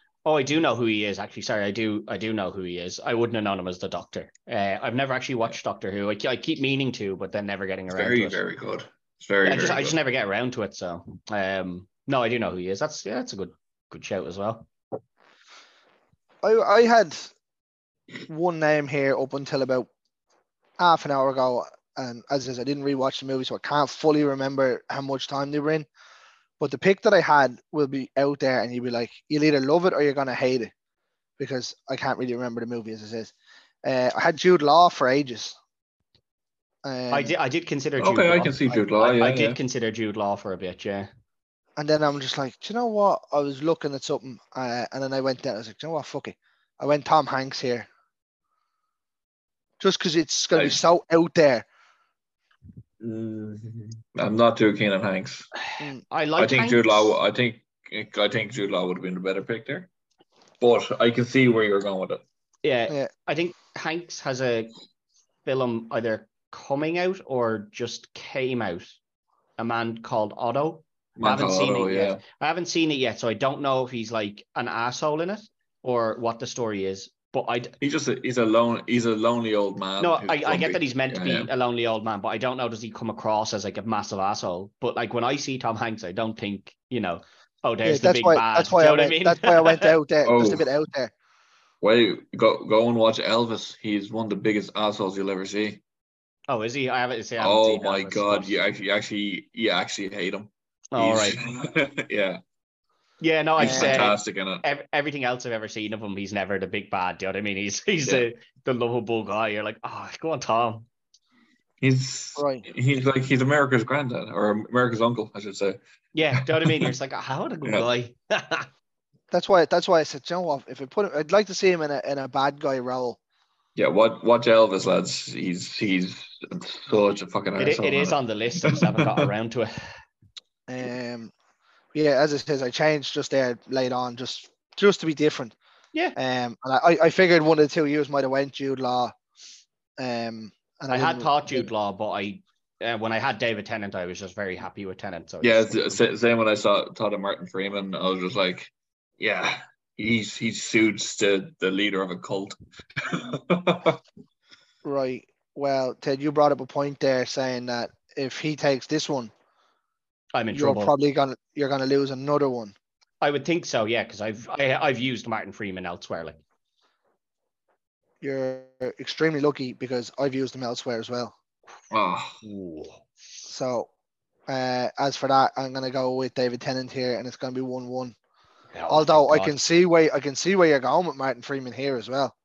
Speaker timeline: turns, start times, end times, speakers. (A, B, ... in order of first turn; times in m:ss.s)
0:00.2-0:08.4 A
0:07.9-0:10.0 B
0:09.4-0:14.7 A
0:16.4-0:17.3 C
0:18.3-0:19.9 C
0:20.8-0:25.9 C
0:26.6-0:30.7 C
0:31.4-0:33.3 C
0:33.8-0:35.6 C
0:36.8-0:37.3 C
0:37.1-0:41.1 A
0:38.0-0:39.6 B
0:41.8-0:47.9 C
0:49.8-0:51.6 C
0:53.0-0:55.5 B
0:55.6-0:57.1 A
0:56.4-0:59.9 B
1:00.6-1:02.2 B
1:02.6-1:04.7 A
1:05.4-1:09.0 A
1:09.6-1:17.7 A
1:11.2-1:12.2 B
1:17.8-1:21.5 B
1:20.0-1:29.9 A
1:27.8-1:31.1 C
1:30.2-1:30.7 B
1:31.8-1:35.8 B
1:36.5-1:38.5 A
1:37.4-1:42.4 B
1:40.9-1:41.4 A
1:43.2-1:50.8 A
1:43.6-1:44.6 B
1:43.6-1:44.1 C
1:51.8-1:55.8 B
1:52.4-1:52.6 C
1:56.1-1:58.7 A
1:56.3-1:56.9 B
1:59.3-2:03.2 C
2:03.8-2:09.3 B
2:07.6-2:09.7 A
2:10.7-2:11.3 C
2:11.9-2:15.5 C
2:16.2-2:19.1 C
2:20.0-2:21.7 C
2:20.9-2:26.0 A
2:25.4-2:34.0 B
2:34.8-2:39.3 C
2:40.3-2:40.9 A
2:40.5-2:42.7 C
2:43.2-2:46.4 A
2:48.2-2:51.3 C
2:51.9-2:52.4 B
2:52.4-2:53.0 A
2:53.5-2:53.9 C
2:54.5-2:58.1 C
2:58.7-2:59.5 A
2:58.9-3:02.3 C